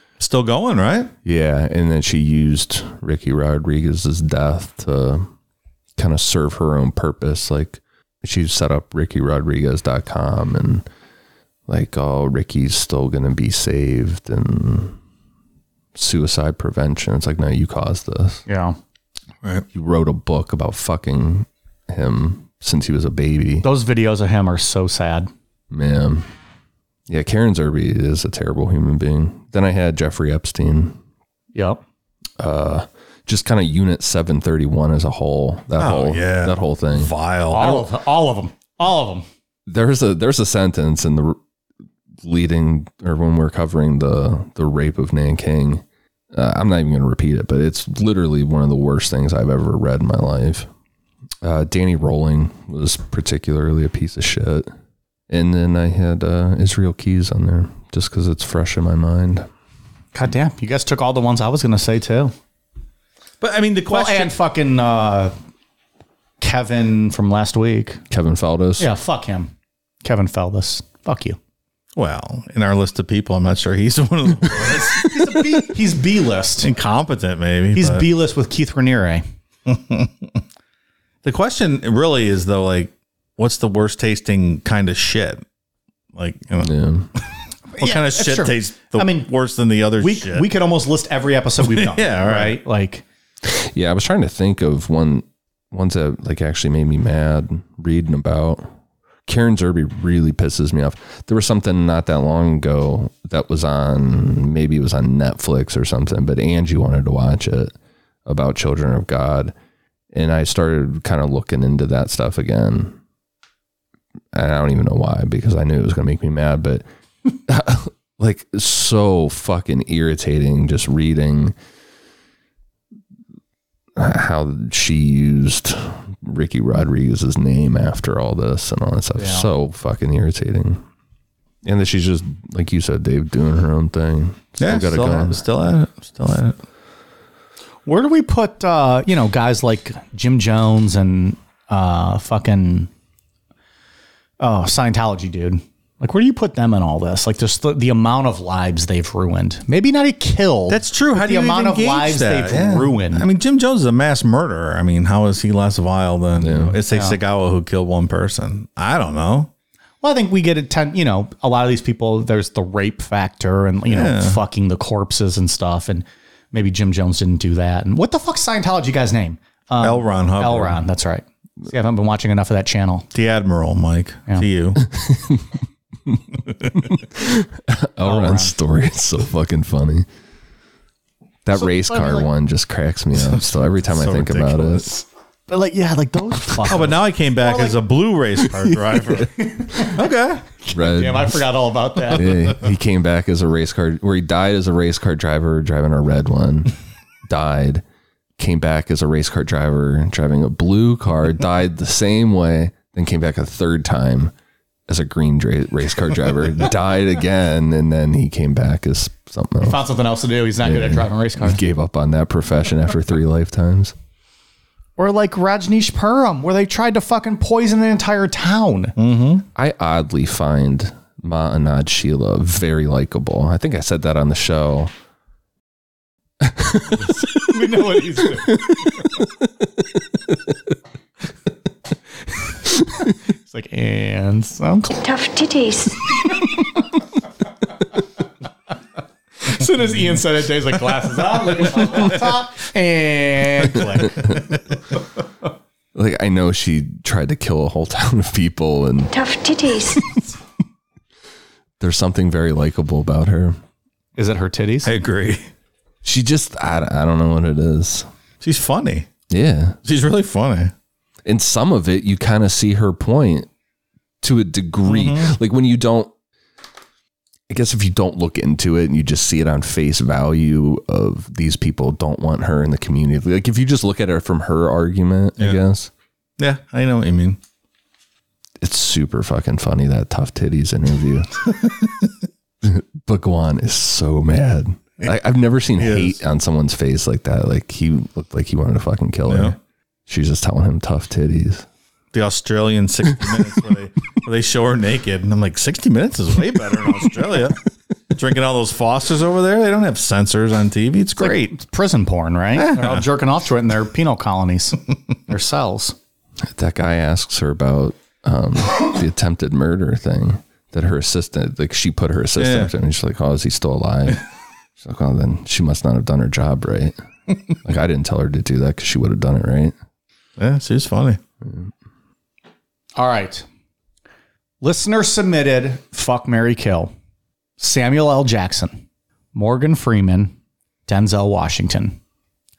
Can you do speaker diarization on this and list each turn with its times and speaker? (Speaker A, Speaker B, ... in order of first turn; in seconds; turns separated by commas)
Speaker A: 0.2-1.1, Speaker B: 1.2-5.3, Speaker B: 6.0-10.9, Speaker B: 11.7-15.0, Speaker B: 16.0-18.4, Speaker C: 18.5-18.8, Speaker B: 19.7-23.7, Speaker C: 23.6-25.3, Speaker B: 25.7-26.3, Speaker B: 27.1-31.0, Speaker C: 31.6-31.8, Speaker B: 32.4-37.1, Speaker A: 35.8-37.9, Speaker C: 37.5-39.3, Speaker B: 39.7-41.4, Speaker B: 42.2-50.7, Speaker B: 51.4-54.7, Speaker B: 55.3-59.5, Speaker C: 60.1-62.3, Speaker A: 63.4-64.3, Speaker C: 63.9-65.3, Speaker C: 66.4-68.0, Speaker B: 68.1-68.9, Speaker C: 68.8-69.5, Speaker C: 70.0-71.4, Speaker A: 72.0-75.1, Speaker C: 74.6-76.7, Speaker A: 76.6-78.1, Speaker C: 77.8-79.2, Speaker A: 79.7-80.4, Speaker A: 81.2-85.4, Speaker A: 86.1-86.7, Speaker B: 86.6-87.1, Speaker C: 87.8-89.3, Speaker A: 87.8-90.5, Speaker C: 90.0-93.0, Speaker A: 91.6-92.6, Speaker B: 93.4-98.7, Speaker B: 99.3-107.7, Speaker B: 108.3-109.5, Speaker B: 110.1-113.0, Speaker B: 114.3-121.5, Speaker B: 124.0-130.8, Speaker C: 129.2-129.5, Speaker B: 131.6-135.4, Speaker A: 134.6-136.6, Speaker C: 137.9-142.9, Speaker C: 144.4-153.3, Speaker A: 150.7-159.5, Speaker B: 156.4-156.8, Speaker C: 156.9-157.2, Speaker C: 160.0-173.1, Speaker A: 163.9-164.4, Speaker A: 169.8-170.8, Speaker A: 173.1-174.8, Speaker B: 174.8-175.5, Speaker B: 176.7-180.1, Speaker C: 178.0-178.5, Speaker B: 181.4-184.9, Speaker C: 181.6-182.3, Speaker A: 183.2-185.1, Speaker C: 185.5-187.8, Speaker A: 186.6-190.5, Speaker C: 189.3-190.0, Speaker C: 190.6-192.3, Speaker B: 190.7-191.4, Speaker B: 192.1-196.8, Speaker B: 197.3-197.8, Speaker B: 198.4-204.3, Speaker B: 204.9-209.8, Speaker C: 209.6-211.6, Speaker B: 210.6-213.9, Speaker C: 215.0-218.9, Speaker A: 219.0-219.4, Speaker B: 219.6-224.9, Speaker B: 226.4-227.4, Speaker C: 227.4-228.9, Speaker B: 228.5-229.1, Speaker C: 233.4-235.0, Speaker D: 234.9-236.2, Speaker C: 239.4-244.4, Speaker B: 245.9-249.1, Speaker D: 249.1-250.2, Speaker B: 251.8-253.6, Speaker C: 254.2-254.9, Speaker A: 254.8-255.4, Speaker B: 256.0-258.1, Speaker A: 258.4-259.1, Speaker B: 259.3-259.8, Speaker A: 259.8-260.7, Speaker B: 261.2-263.5, Speaker B: 264.2-266.1, Speaker A: 264.9-265.4, Speaker B: 267.5-275.9, Speaker A: 276.4-277.4, Speaker B: 278.6-281.3, Speaker A: 281.6-282.1, Speaker B: 282.6-289.6, Speaker A: 285.8-286.2, Speaker A: 289.3-289.6, Speaker B: 290.1-291.7, Speaker A: 292.1-297.6, Speaker A: 298.1-301.6, Speaker C: 301.2-305.9, Speaker A: 302.6-303.1, Speaker B: 306.4-314.2, Speaker A: 312.4-312.7, Speaker B: 314.8-316.9, Speaker B: 317.5-319.7, Speaker A: 320.4-321.2, Speaker B: 321.4-321.7, Speaker C: 323.0-323.5, Speaker C: 324.6-326.9, Speaker C: 327.6-328.8, Speaker C: 329.3-330.3, Speaker C: 330.9-332.0